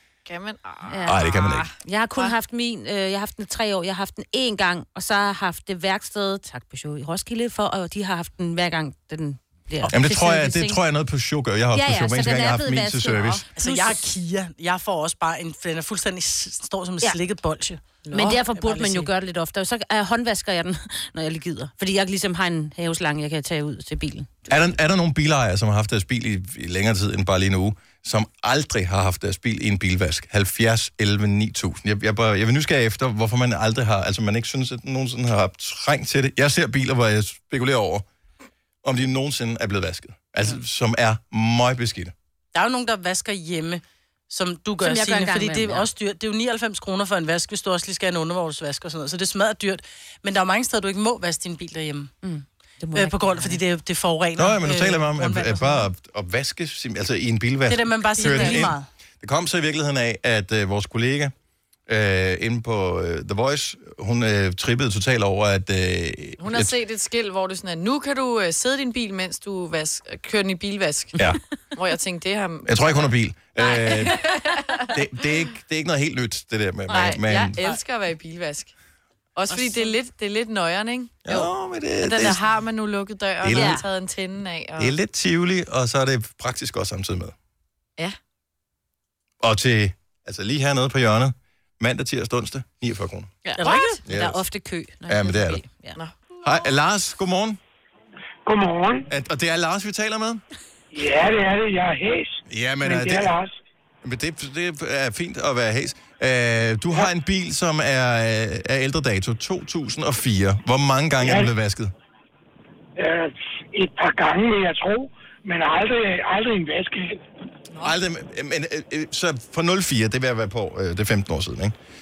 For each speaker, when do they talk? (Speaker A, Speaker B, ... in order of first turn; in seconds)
Speaker A: 0.2-2.3, 58.3-58.7, 66.4-73.1, 73.6-75.0, 76.9-78.7, 79.3-84.9
Speaker B: 0.9-1.2, 1.8-10.8, 11.7-14.0, 18.1-24.6, 44.8-45.9, 52.2-53.6, 58.3-58.6, 83.5-83.8, 93.4-96.0
Speaker C: 1.1-1.7, 9.9-13.4, 24.5-38.1, 38.8-42.1, 54.4-61.3, 61.9-66.7, 72.7-74.3, 74.9-77.6, 81.2-82.4, 83.4-83.8, 84.8-87.3, 89.4-93.3, 94.0-94.4, 95.0-95.6, 96.4-97.6, 99.1-100.4, 102.5-103.3, 104.0-111.9, 117.8-121.8
Speaker D: 9.8-10.1, 13.5-19.1, 42.5-52.1, 52.9-55.9, 57.6-58.9, 79.5-79.9, 93.5-94.0
Speaker E: 98.5-99.1, 100.9-103.5, 111.2-111.5, 113.0-117.2